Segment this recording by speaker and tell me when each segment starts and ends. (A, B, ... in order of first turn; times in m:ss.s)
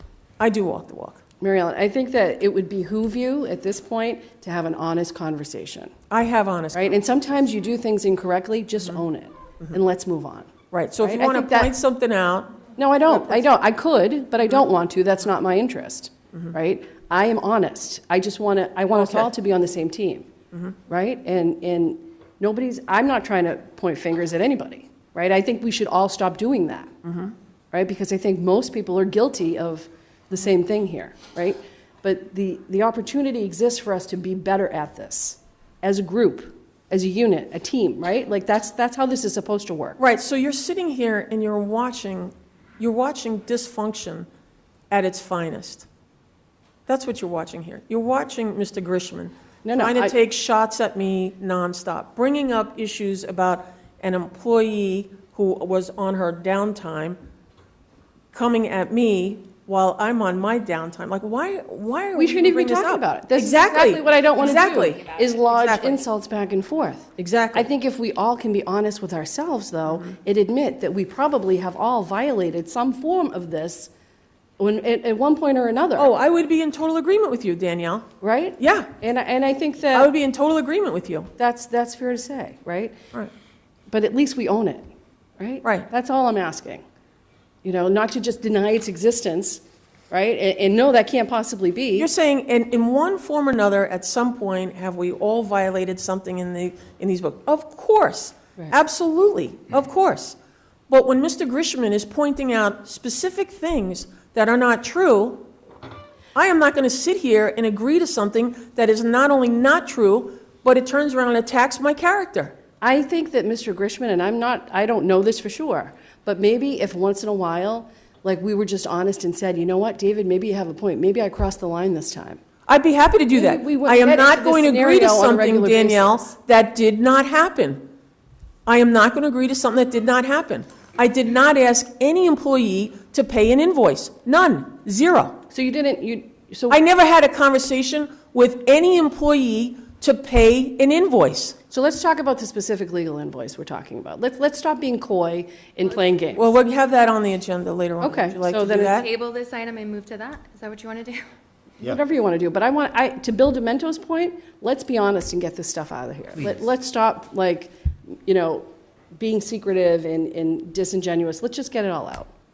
0:00.4-0:01.2 A
0:01.4-0:05.9 B
0:06.1-0:07.0 A
0:06.7-0:10.5 B
0:10.7-0:13.4 A
0:11.0-0:11.7 B
0:12.8-0:20.3 B
0:18.9-0:19.3 A
0:20.9-0:26.9 B
0:27.0-0:27.3 A
0:27.7-0:40.0 B
0:40.0-0:44.3 A
0:44.9-0:45.9 A
0:46.9-0:57.2 A
0:49.6-0:50.2 B
0:58.3-1:06.0 A
1:02.1-1:13.9 B
1:04.0-1:05.8 C
1:07.2-1:07.7 A
1:14.6-1:16.1 B
1:16.0-1:18.1 A
1:18.2-1:20.1 B
1:18.6-1:18.9 A
1:19.9-1:21.3 A
1:21.4-1:23.0 B
1:23.9-1:24.9 B
1:25.4-1:26.8 B
1:27.6-1:32.1 B
1:32.0-1:40.4 A
1:40.9-1:45.5 A
1:46.3-1:52.5 A
1:52.8-2:02.4 B
2:02.7-2:07.8 A
2:03.3-2:06.4 B
2:08.6-2:15.4 A
2:15.5-2:16.8 B
2:16.7-2:21.6 A
2:21.7-2:26.5 B
2:26.4-2:29.1 A
2:28.0-2:29.0 B
2:28.9-2:31.2 C
2:31.8-2:42.3 B